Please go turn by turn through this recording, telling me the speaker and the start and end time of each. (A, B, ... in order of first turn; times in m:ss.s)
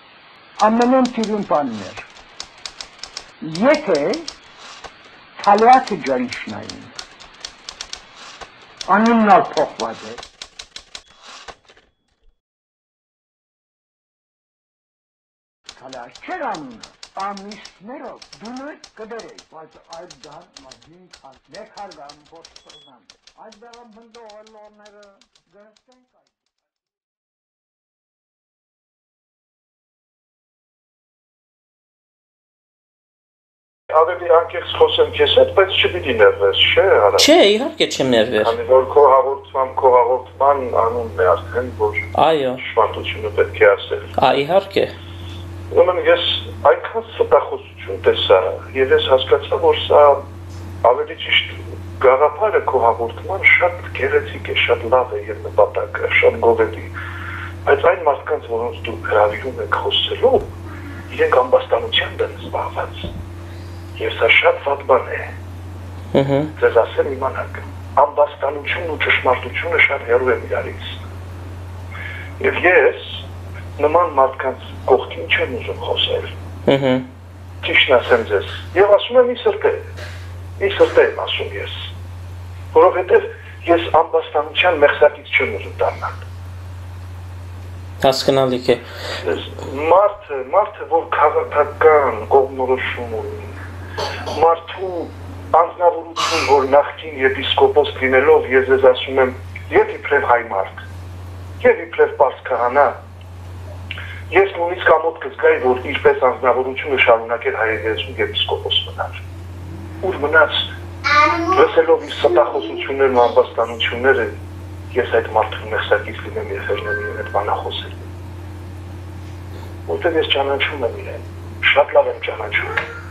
0:00.6-0:02.0 A
0:03.4-0:04.3 A
0:05.4-0:06.9 A
0:08.9-0:10.2 A
0:15.8-0:26.3 A
0:33.9-0:37.3 B
0:37.2-0:38.5 C
0:38.4-0:44.1 B
0:42.2-0:42.6 C
0:44.2-0:44.9 C
0:45.7-0:50.2 B
0:50.8-0:56.9 B
0:57.6-1:00.5 B
1:01.1-1:03.1 B
1:04.0-1:05.3 B
1:06.1-1:06.5 C
1:06.6-1:11.0 B
1:12.4-1:13.2 B
1:13.8-1:16.3 B
1:16.6-1:17.0 C
1:17.6-1:19.8 B
1:20.6-1:21.9 B
1:22.7-1:26.2 B
1:28.0-1:28.8 C
1:29.2-1:33.5 B
1:34.3-1:40.8 B
1:41.6-1:43.0 B
1:44.3-1:49.2 B
1:50.0-1:50.7 B
1:51.5-1:54.4 B
1:54.9-1:58.1 B
1:59.9-2:02.8 B